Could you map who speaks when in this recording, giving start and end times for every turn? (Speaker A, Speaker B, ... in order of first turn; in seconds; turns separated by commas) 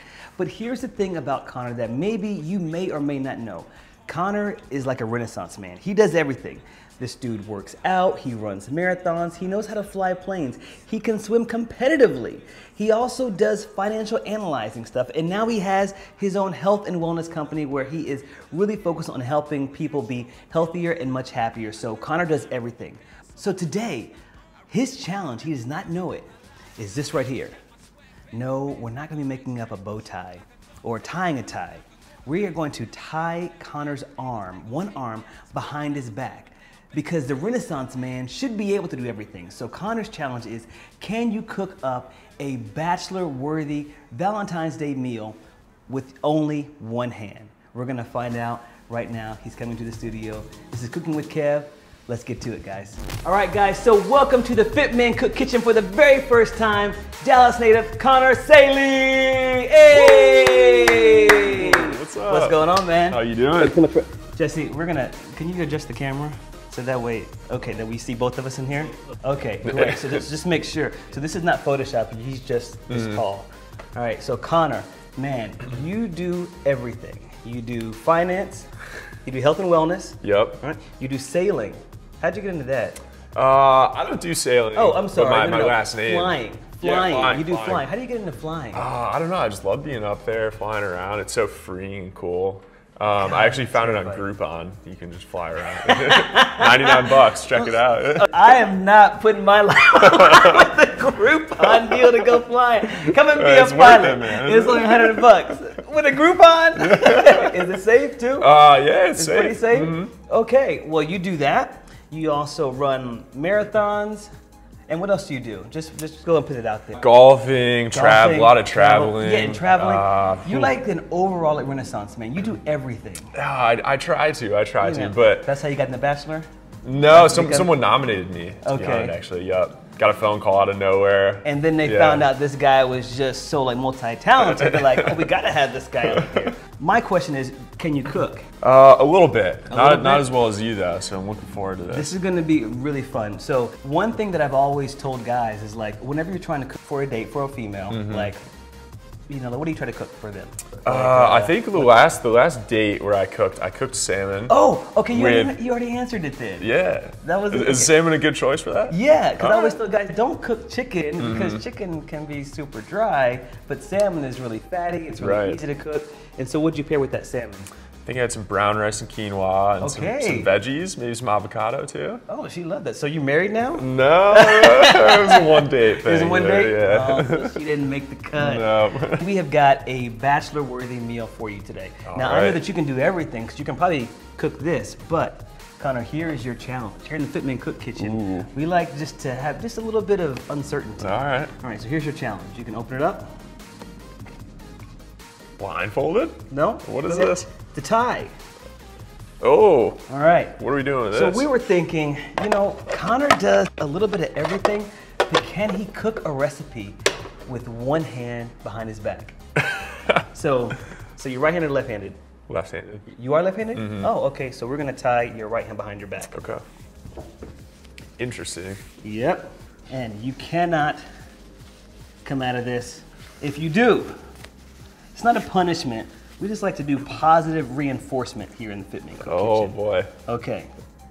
Speaker A: 0.4-24.1, Speaker A: 24.7-27.6, Speaker A: 28.3-45.4, Speaker A: 45.9-78.7, Speaker B: 59.9-63.8, Speaker B: 69.6-70.2, Speaker B: 72.9-73.2, Speaker A: 79.2-83.0, Speaker B: 80.2-80.6, Speaker B: 83.3-87.9, Speaker A: 84.7-88.9, Speaker B: 88.7-98.4, Speaker A: 93.2-94.3, Speaker A: 95.8-108.6, Speaker B: 100.1-100.7, Speaker B: 103.3-105.5, Speaker B: 106.8-107.7, Speaker B: 108.4-110.1, Speaker A: 109.1-114.3, Speaker A: 114.9-117.0, Speaker B: 117.0-120.8, Speaker A: 117.9-123.3, Speaker B: 123.3-125.5, Speaker A: 124.8-126.5, Speaker B: 126.8-132.3, Speaker A: 127.1-127.8, Speaker A: 128.6-129.2, Speaker A: 131.4-138.5, Speaker B: 134.4-135.3, Speaker B: 136.1-136.4, Speaker B: 138.6-142.1, Speaker A: 139.7-140.3, Speaker A: 141.9-148.4, Speaker B: 147.9-148.3, Speaker A: 149.3-151.9, Speaker B: 150.8-154.6, Speaker A: 154.5-156.7, Speaker B: 155.1-155.6, Speaker B: 156.6-159.8, Speaker A: 157.2-158.0, Speaker A: 158.9-167.7, Speaker B: 161.2-161.6, Speaker B: 165.2-165.6, Speaker B: 168.1-172.2, Speaker A: 169.8-170.5, Speaker A: 172.3-193.3, Speaker B: 173.8-177.6, Speaker B: 178.3-179.2, Speaker B: 182.1-182.7, Speaker B: 188.0-188.5, Speaker B: 191.0-191.5, Speaker B: 195.6-197.5, Speaker A: 196.5-198.3, Speaker B: 199.4-200.1, Speaker A: 200.1-209.4, Speaker B: 200.6-201.5, Speaker B: 209.7-210.2, Speaker A: 210.2-212.2, Speaker B: 212.5-213.1, Speaker A: 213.1-216.3, Speaker B: 213.8-214.1, Speaker B: 216.3-216.6, Speaker B: 218.2-218.8, Speaker A: 219.0-221.0, Speaker A: 222.2-224.2, Speaker A: 225.1-230.7, Speaker B: 229.2-230.1